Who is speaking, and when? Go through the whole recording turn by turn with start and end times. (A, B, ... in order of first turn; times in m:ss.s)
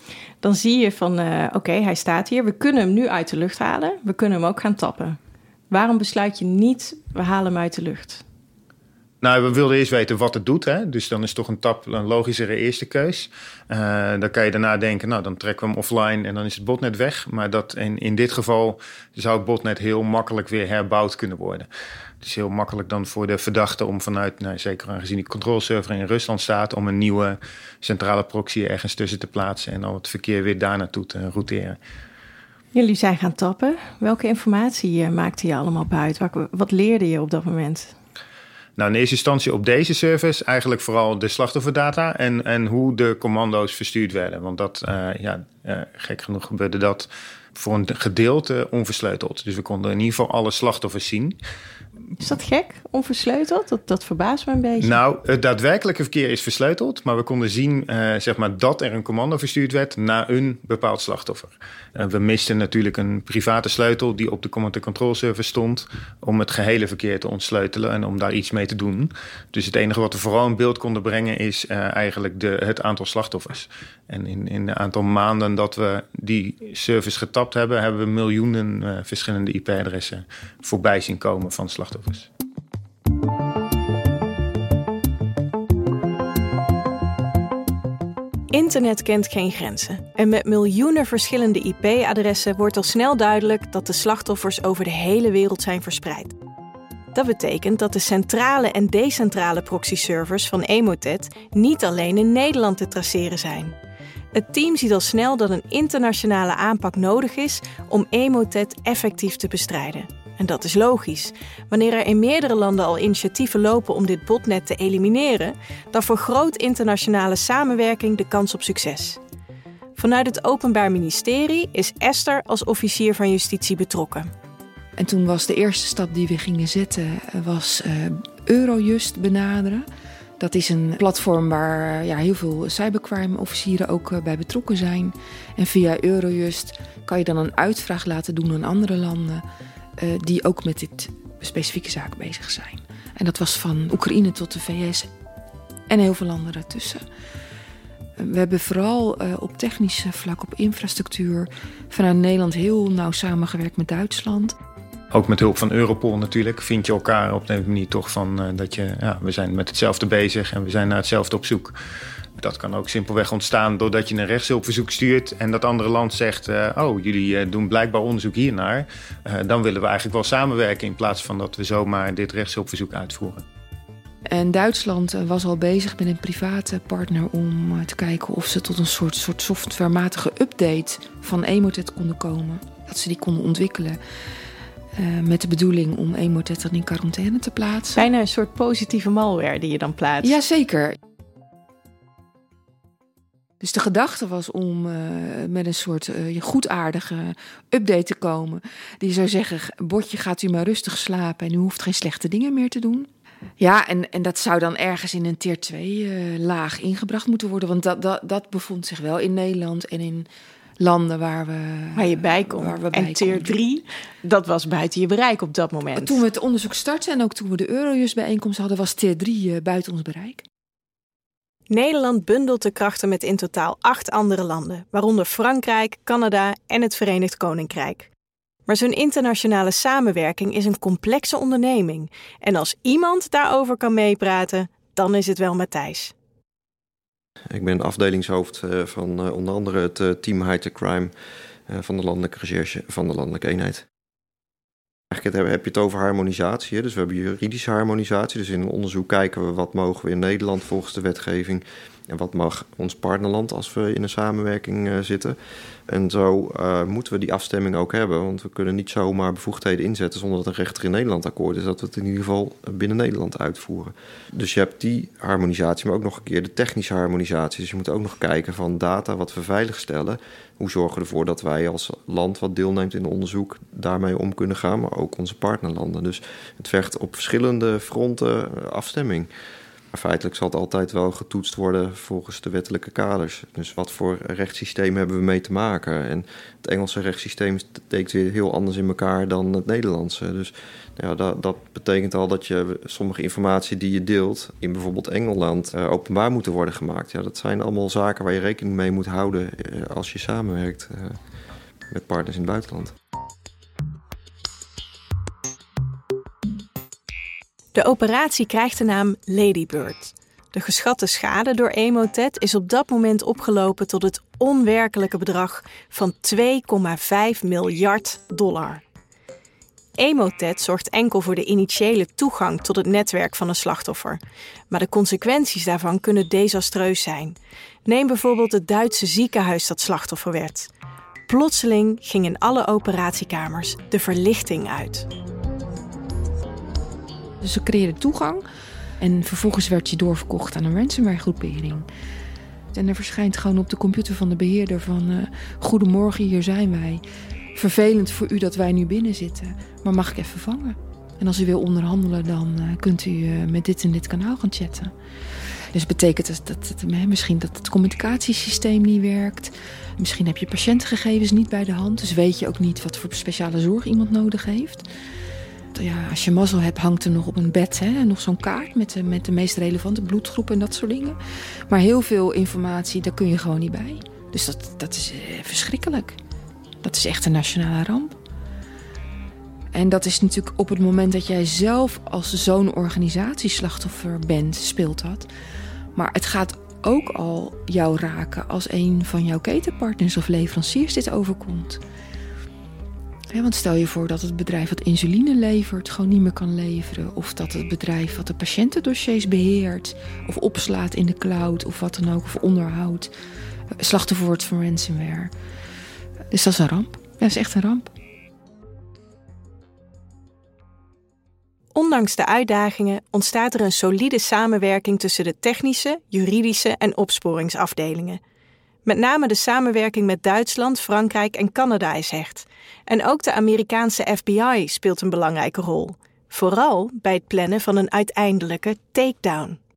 0:00.4-0:05.2 A
0:05.7-0:08.2 A
0:09.2-0:21.7 B
0:22.2-0:31.8 B
0:32.7-0:37.9 A
0:38.8-0:51.4 B
0:52.2-0:55.0 A
0:54.8-1:22.3 B
1:28.5-1:36.3 A
1:37.1-1:43.8 A
1:44.3-1:59.2 A
2:00.0-2:04.3 A
2:05.0-2:09.9 C
2:10.4-2:19.4 C
2:20.0-2:25.1 C
2:25.9-2:27.0 C
2:28.2-2:34.6 C
2:35.1-2:41.8 B
2:42.4-2:53.4 B
2:54.3-3:04.0 C
3:05.0-3:08.1 C
3:08.0-3:10.4 A
3:10.2-3:11.0 C
3:13.6-3:23.1 C
3:23.6-3:30.3 C
3:30.8-3:33.6 C
3:32.0-3:36.2 A
3:36.0-3:40.4 C
3:41.7-3:48.1 A
3:48.7-3:56.1 A
3:57.5-4:01.1 D
4:01.7-4:03.9 D
4:05.1-4:15.4 D
4:15.9-4:39.3 D
4:39.9-5:01.2 D
5:01.9-5:02.9 D
5:07.8-5:18.8 A
5:20.0-5:24.2 A
5:24.7-5:30.7 A
5:31.3-5:35.1 A
5:37.4-5:38.4 C
5:39.0-5:41.9 C
5:42.7-5:47.0 C
5:47.6-5:54.9 C
5:55.7-6:04.9 C
6:05.8-6:11.2 C
6:11.7-6:16.2 C
6:16.8-6:18.2 C
6:19.7-6:25.3 C
6:26.0-6:31.8 C
6:33.3-6:43.1 C
6:43.8-6:45.3 C
6:46.3-6:47.9 C
6:51.8-6:58.2 A
6:58.8-7:09.6 A